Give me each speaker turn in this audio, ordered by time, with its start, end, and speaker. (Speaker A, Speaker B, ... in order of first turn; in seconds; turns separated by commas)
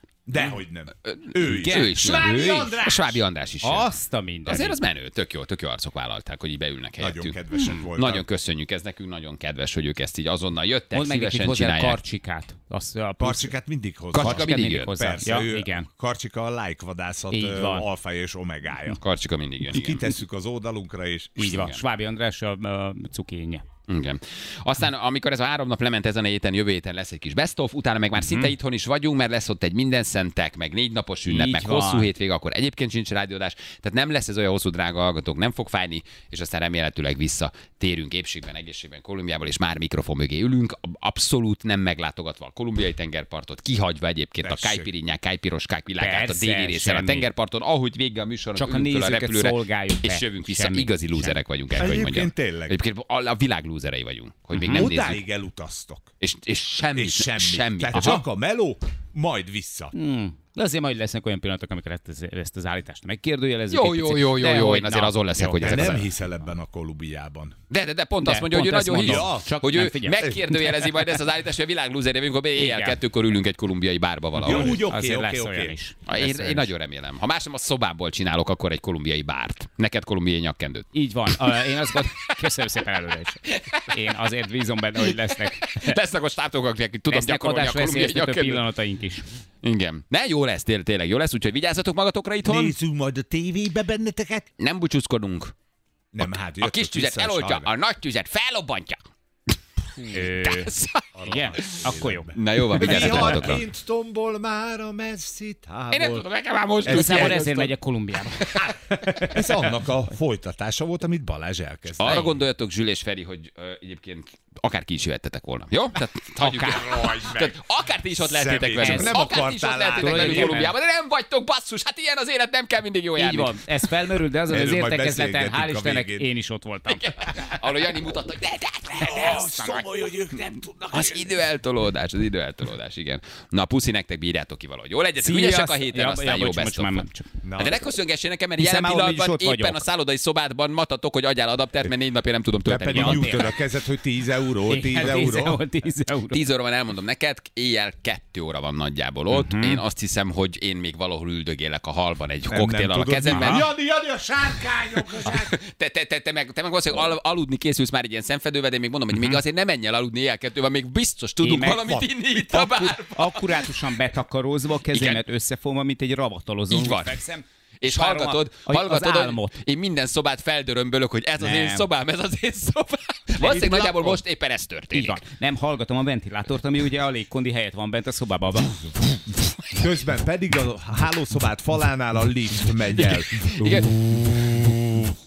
Speaker A: 0.3-3.2, Speaker B: 1.0-3.9, Speaker C: 1.6-2.8, Speaker C: 3.6-4.8, Speaker B: 4.5-12.0, Speaker A: 7.0-8.3, Speaker C: 10.9-13.5, Speaker A: 13.2-19.0, Speaker B: 14.1-14.9, Speaker C: 14.1-15.9, Speaker C: 17.3-17.9, Speaker B: 19.0-20.1, Speaker A: 19.7-21.6, Speaker C: 21.4-23.6, Speaker B: 21.5-21.8, Speaker B: 23.9-55.2, Speaker C: 31.3-32.1, Speaker A: 44.4-44.9, Speaker C: 46.0-47.3, Speaker C: 48.6-51.4, Speaker A: 51.8-52.8, Speaker C: 54.6-54.9, Speaker A: 54.7-56.1, Speaker B: 56.2-58.2, Speaker A: 56.9-60.0, Speaker C: 58.0-58.2, Speaker C: 59.9-66.1, Speaker B: 63.7-66.1, Speaker A: 65.6-67.6, Speaker B: 67.7-74.8, Speaker C: 68.2-70.9, Speaker A: 68.9-69.6, Speaker A: 70.2-70.5, Speaker C: 72.5-73.0, Speaker C: 74.4-76.7, Speaker A: 74.4-75.8, Speaker B: 76.1-80.9, Speaker C: 80.9-86.0, Speaker B: 83.5-83.9, Speaker B: 85.6-88.6, Speaker C: 87.1-89.3, Speaker B: 89.6-92.8, Speaker A: 92.4-94.5, Speaker B: 94.6-95.5, Speaker A: 96.1-97.7, Speaker B: 96.2-99.0, Speaker C: 100.0-103.5, Speaker B: 100.0-101.1, Speaker A: 101.1-106.2, Speaker B: 102.3-103.6, Speaker B: 105.9-107.7, Speaker A: 106.8-107.7, Speaker C: 106.8-109.8, Speaker A: 109.2-112.3, Speaker B: 112.0-123.6, Speaker C: 112.0-112.3, Speaker C: 116.4-116.7, Speaker A: 116.5-120.6, Speaker C: 118.8-119.3, Speaker C: 120.0-120.7, Speaker C: 123.2-127.1, Speaker A: 124.5-126.3, Speaker B: 126.9-129.8, Speaker A: 129.0-131.3, Speaker B: 130.9-143.6, Speaker C: 135.2-137.3, Speaker A: 137.4-137.8, Speaker C: 138.6-139.8, Speaker A: 142.7-145.6, Speaker C: 142.9-143.6, Speaker C: 144.7-146.4, Speaker B: 146.3-153.7, Speaker C: 149.3-149.8, Speaker A: 152.5-155.5, Speaker C: 153.3-153.7, Speaker B: 155.2-163.4, Speaker C: 159.1-159.4, Speaker C: 161.4-169.6, Speaker B: 164.9-165.2, Speaker B: 166.7-167.3, Speaker B: 167.8-175.2, Speaker C: 171.4-171.9, Speaker A: 173.4-174.1, Speaker C: 173.5-174.2, Speaker C: 174.9-178.9, Speaker A: 179.8-183.6, Speaker B: 183.5-183.9, Speaker C: 183.6-184.6